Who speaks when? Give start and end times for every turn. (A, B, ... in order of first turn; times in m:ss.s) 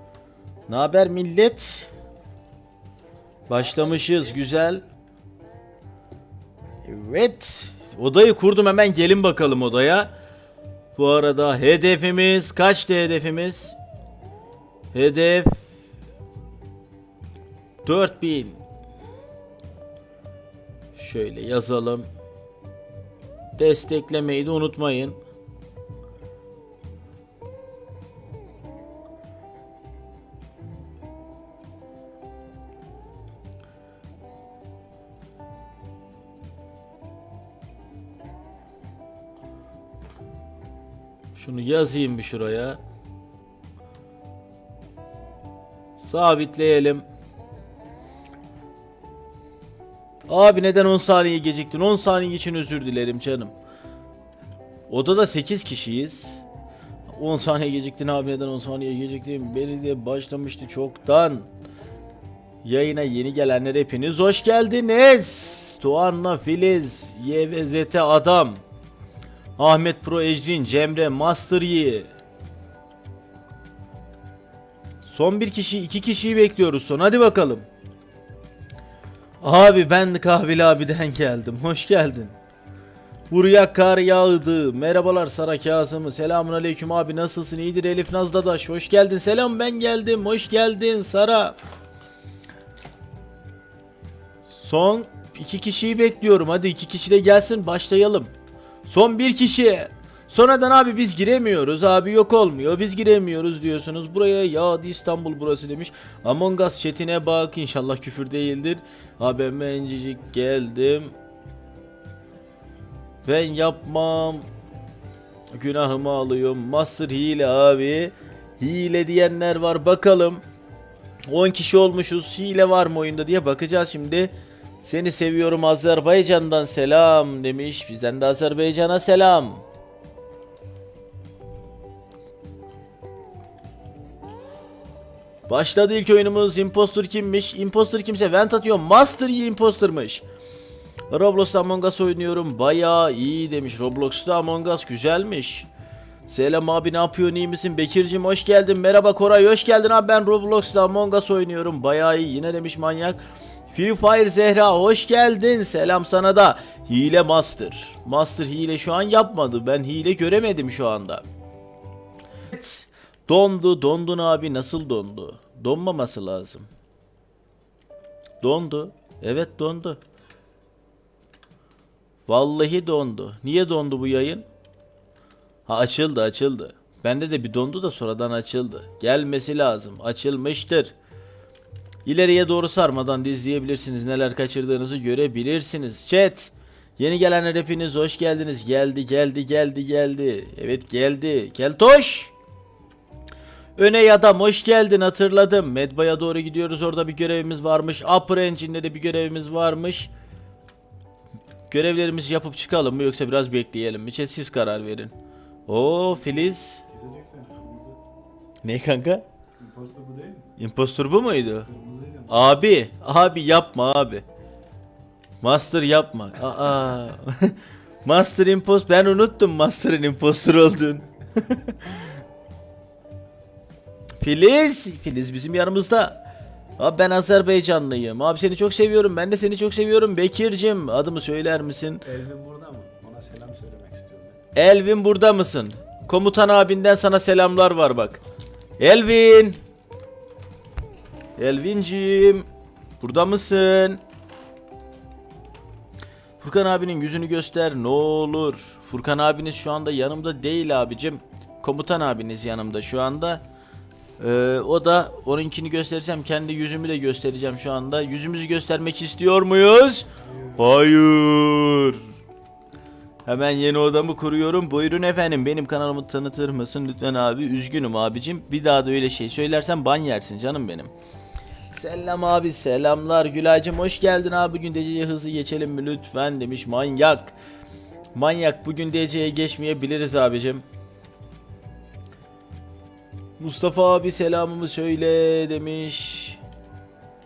0:00.7-0:01.9 A
0:03.5-0:04.8 A
0:06.8-0:10.1 A
0:11.0-0:13.8 A
0:14.9-0:15.7 A
0:17.8-0:18.6 A
0:21.0-0:22.1 A
0:23.6-0:25.2 A
0:41.4-0:42.8 A
0:46.0-0:47.0 A
0:50.3-0:53.5 A
0:54.9-0:56.4 A
0:57.1-1:01.5 A
1:02.6-1:08.6 A
1:09.6-1:12.1 A
1:15.0-1:17.7 A
1:19.4-1:22.3 A
1:23.3-1:31.6 A
1:34.5-1:38.3 A
1:38.8-1:51.2 A
1:53.2-1:54.5 A
1:55.5-2:00.4 A
2:01.3-2:09.6 A
2:15.5-2:20.2 A
2:21.1-2:25.7 A
2:26.3-2:33.2 A
2:33.7-2:41.2 A
2:42.5-2:46.7 A
2:48.4-2:50.0 A
2:52.3-2:54.5 A
2:55.7-3:00.9 A
3:02.1-3:12.3 A
3:13.8-3:20.1 A
3:21.7-3:25.1 A
3:25.7-3:26.8 A
3:26.8-3:28.0 B
3:28.6-3:29.2 A
3:29.6-3:30.6 B
3:30.6-3:31.7 A
3:31.6-3:32.6 B
3:32.3-3:34.2 A
3:35.4-3:41.8 A
3:44.2-3:46.2 A
3:46.8-3:52.0 A
3:52.0-3:54.4 B
3:54.6-3:58.2 A
3:58.8-3:59.6 A
4:01.4-4:02.5 A
4:03.0-4:04.0 A
4:06.4-4:13.4 A
4:14.2-4:22.0 A
4:20.3-4:20.7 B
4:23.3-4:30.9 A
4:31.7-4:37.4 A
4:38.2-4:40.6 A
4:43.4-4:46.4 A